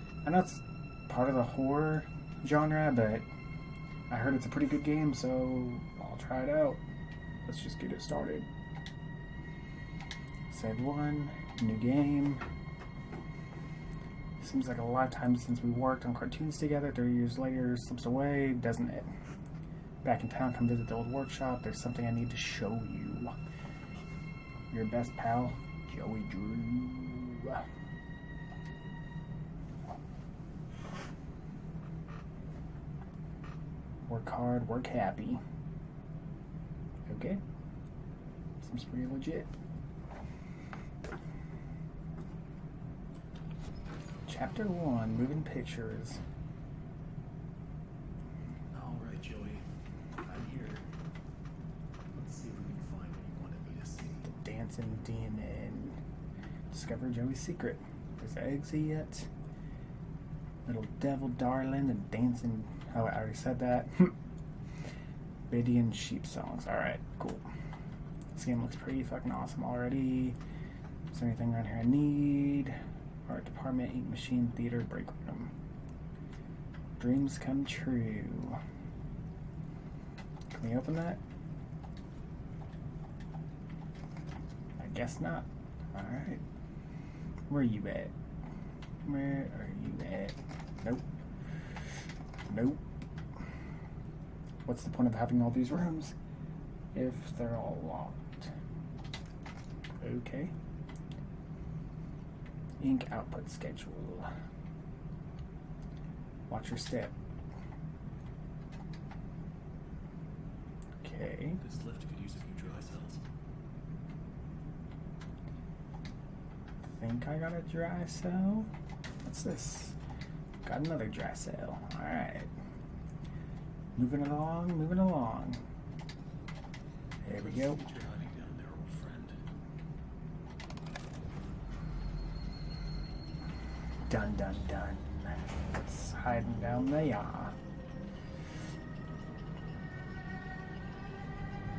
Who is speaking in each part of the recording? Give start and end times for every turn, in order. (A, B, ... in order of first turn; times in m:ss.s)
0:00.2-0:03.2 A
0:04.1-0:06.8 A
0:07.4-0:08.5 A
0:10.5-0:12.4 A
0:14.4-0:19.1 A
0:20.0-0:23.3 A
0:24.7-0:27.6 A
0:34.1-0:35.4 A
0:37.1-0:37.4 A
0:38.6-0:39.5 A
0:44.3-0:46.2 A
0:48.7-0:49.6 B
0:50.2-0:50.8 B
0:52.1-0:54.2 B
0:54.2-0:56.0 A
0:56.7-0:59.3 A
1:00.6-1:04.1 A
1:05.5-1:07.4 A
1:08.3-1:10.4 A
1:11.1-1:12.8 A
1:13.3-1:15.5 A
1:17.0-1:18.6 A
1:20.5-1:21.2 A
1:24.8-1:26.4 A
1:27.5-1:28.1 A
1:29.0-1:31.0 A
1:32.5-1:32.8 A
1:34.7-1:36.2 A
1:36.9-1:38.5 A
1:40.0-1:40.5 A
1:42.8-1:44.3 A
1:46.5-1:47.1 A
1:51.0-1:51.6 A
1:51.6-1:53.2 B
1:56.9-1:58.7 A
1:59.2-2:00.0 A
2:00.6-2:02.5 A
2:04.0-2:05.6 A
2:07.2-2:07.8 A
2:07.3-2:09.4 B
2:14.1-2:17.6 A